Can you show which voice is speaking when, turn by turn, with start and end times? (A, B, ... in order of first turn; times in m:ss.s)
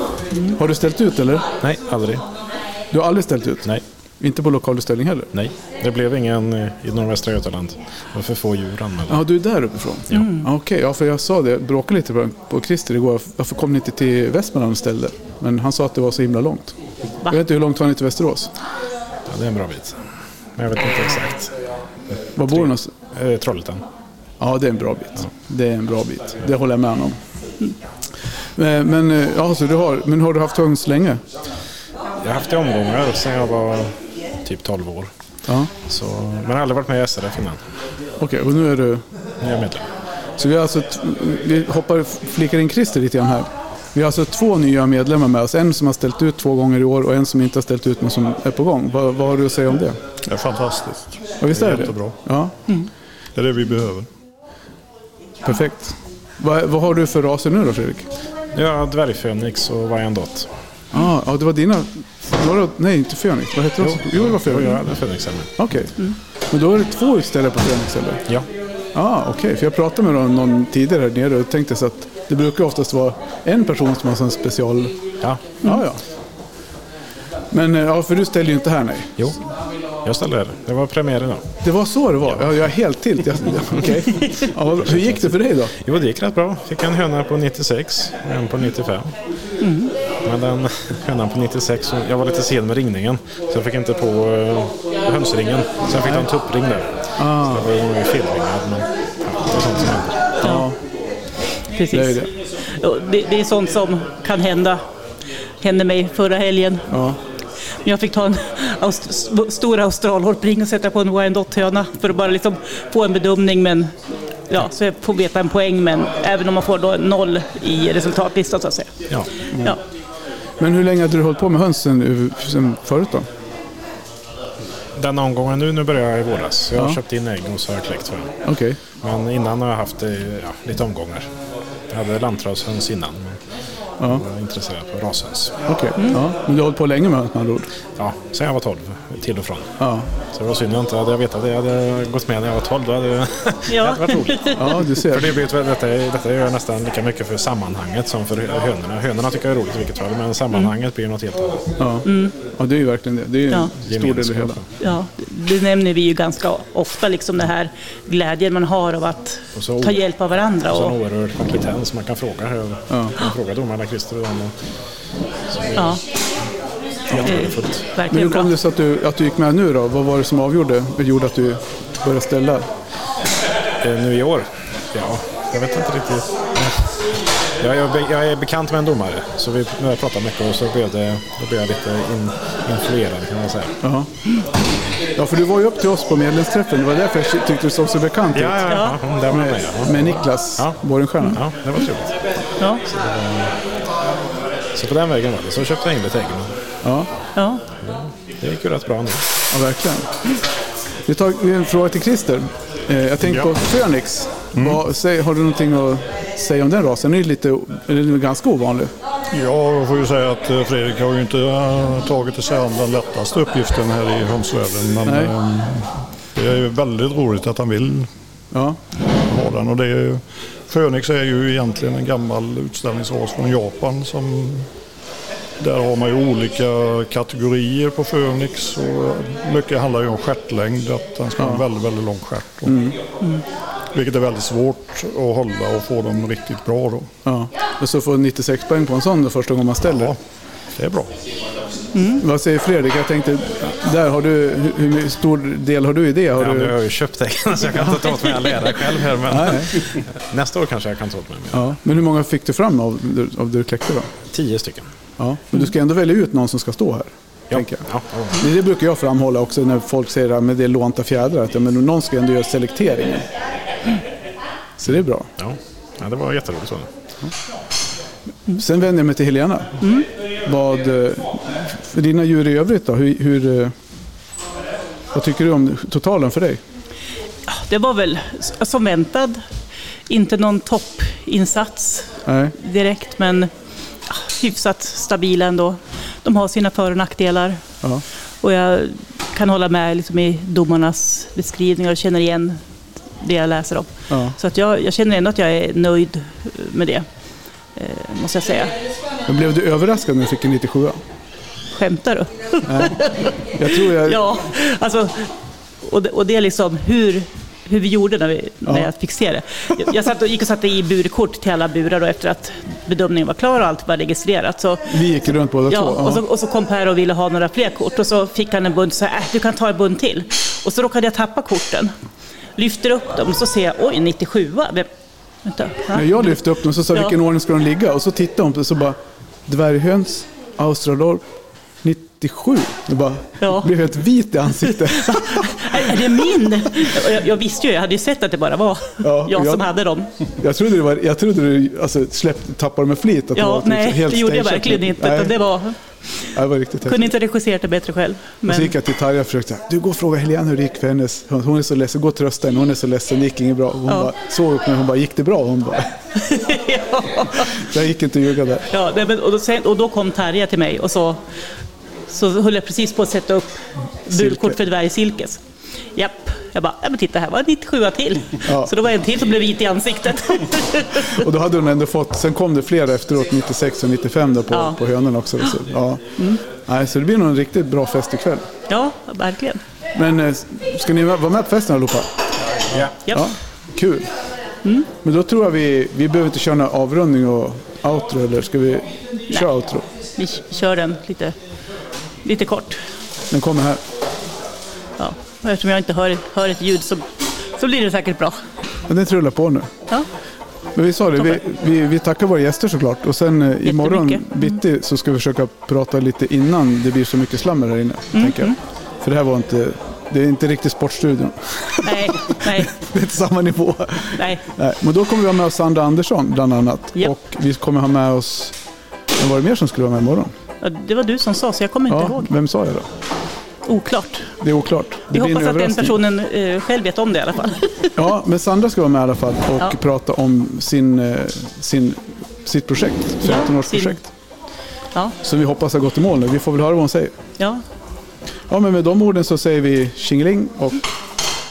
0:00.5-0:01.5 A
0:01.6-0:02.2 B
0:02.9-0:03.7 A
0:04.2-0:05.3 A
0:05.3-0:09.2 B
0:09.1-0:18.5 A
0:19.3-0:20.0 B
0:20.6-0:21.5 B
0:22.1-0:23.8 B
0:22.4-0:22.9 A
0:24.4-0:27.2 A
0:28.6-0:31.2 A
0:32.2-0:35.1 B
0:35.8-0:37.6 B
0:38.2-0:39.0 A
0:39.4-0:39.9 B
0:40.4-0:50.0 A
0:50.2-0:52.2 C
0:51.4-0:52.5 A
0:53.3-0:54.1 C
0:55.4-0:58.0 A
0:58.5-1:00.5 B
1:00.9-1:04.8 A
1:03.8-1:05.5 B
1:05.6-1:08.2 A
1:08.9-1:15.0 A
1:15.2-1:15.6 B
1:15.6-1:16.0 A
1:17.5-1:19.4 A
1:20.0-1:21.5 B
1:21.6-1:25.7 A
1:24.7-1:29.1 B
1:29.6-1:29.9 D
1:30.2-1:36.9 B
1:35.9-1:36.3 A
1:37.2-1:37.7 A
1:37.4-1:40.3 B
1:40.4-1:40.8 A
1:40.4-1:40.7 D
1:41.7-1:44.8 D
1:41.9-1:42.3 A
1:45.6-1:46.9 D
1:46.9-1:47.2 A
1:47.8-1:53.9 D
1:54.5-1:59.0 D
1:59.5-1:59.8 A
2:00.6-2:03.3 A
2:04.9-2:08.3 B
2:08.4-2:08.8 A
2:09.0-2:11.3 B
2:11.9-2:13.4 B
2:14.0-2:15.6 B
2:15.7-2:17.7 A
2:18.0-2:19.7 B
2:19.8-2:20.1 A
2:20.3-2:31.7 B
2:23.7-2:24.6 D
2:24.6-2:25.4 A
2:31.8-2:34.6 A
2:32.0-2:32.3 D
2:33.9-2:34.6 B
2:34.8-2:41.0 D
2:39.5-2:40.0 B
2:40.7-2:44.5 B
2:42.9-2:43.1 A
2:45.5-2:46.0 B
2:47.1-2:47.8 B
2:47.2-2:48.5 D
2:48.1-2:52.7 A
2:53.8-3:03.7 B
3:03.8-3:04.1 A
3:05.2-3:08.7 A
3:08.3-3:12.2 B
3:08.7-3:09.0 D
3:09.3-3:11.4 A
3:12.8-3:13.5 B
3:14.7-3:16.5 B
3:16.8-3:17.1 A
3:17.4-3:17.6 D
3:17.8-3:19.2 B
3:19.5-3:20.1 A
3:21.1-3:28.9 A
3:29.3-3:38.1 C
3:35.0-3:35.4 A
3:38.5-3:38.8 A
3:39.2-3:44.7 C
3:45.6-3:52.8 C
3:51.4-3:51.6 A
3:52.6-3:53.0 A
3:53.9-3:57.1 C
3:57.2-4:00.1 A
4:00.8-4:01.1 C
4:01.9-4:02.2 D
4:02.2-4:06.8 A
4:06.4-4:11.7 B
4:09.2-4:09.8 A
4:11.5-4:14.1 A
4:14.3-4:14.9 B
4:15.2-4:23.3 A
4:17.5-4:18.4 B
4:24.8-4:25.3 A
4:25.4-4:26.9 B
4:28.5-4:29.8 A
4:29.8-4:30.0 D
4:30.4-4:33.7 A
4:35.1-4:36.6 A
4:37.5-4:39.4 D
4:40.1-4:43.5 D
4:42.2-4:42.5 A
4:44.1-4:47.6 D
4:48.4-4:52.6 D
4:53.2-4:57.0 D
4:54.1-4:54.4 A
4:57.8-4:58.7 D
4:59.3-5:01.0 A
5:01.8-5:05.3 D
5:02.6-5:03.0 A
5:03.5-5:04.2 A
5:05.8-5:14.9 D
5:14.9-5:16.2 A
5:15.7-5:21.9 D
5:22.6-5:24.9 D
5:25.4-5:26.1 D
5:25.9-5:31.2 A
5:31.8-5:35.9 A
5:33.4-5:33.7 D
5:34.7-5:40.1 D
5:39.0-5:39.6 A
5:40.4-5:45.4 A
5:43.3-5:45.8 D
5:46.3-5:47.1 A
5:46.8-5:48.7 D
5:48.4-5:55.9 A
5:56.2-5:57.5 D
5:57.4-5:58.7 A
5:58.7-6:01.2 D
6:02.1-6:05.4 D
6:04.1-6:04.6 A
6:05.9-6:11.1 D
6:08.4-6:08.7 A
6:10.9-6:18.4 A
6:18.7-6:19.6 D
6:19.9-6:22.1 A
6:23.1-6:24.1 A
6:25.0-6:29.8 A
6:30.2-6:31.4 D
6:32.2-6:32.8 D
6:33.3-6:33.8 A
6:35.0-6:38.4 D
6:38.9-6:39.7 A
6:40.7-6:58.6 A
6:43.6-6:44.4 D
6:48.1-6:48.5 D
6:51.8-6:52.7 D
6:54.2-6:54.4 D
6:59.2-7:00.3 A
7:00.6-7:02.3 D
7:01.9-7:02.9 A
7:03.6-7:04.3 D
7:04.4-7:06.0 A
7:05.1-7:07.9 D
7:07.9-7:14.0 A
7:13.2-7:14.0 D
7:15.2-7:17.2 A
7:18.5-7:20.8 A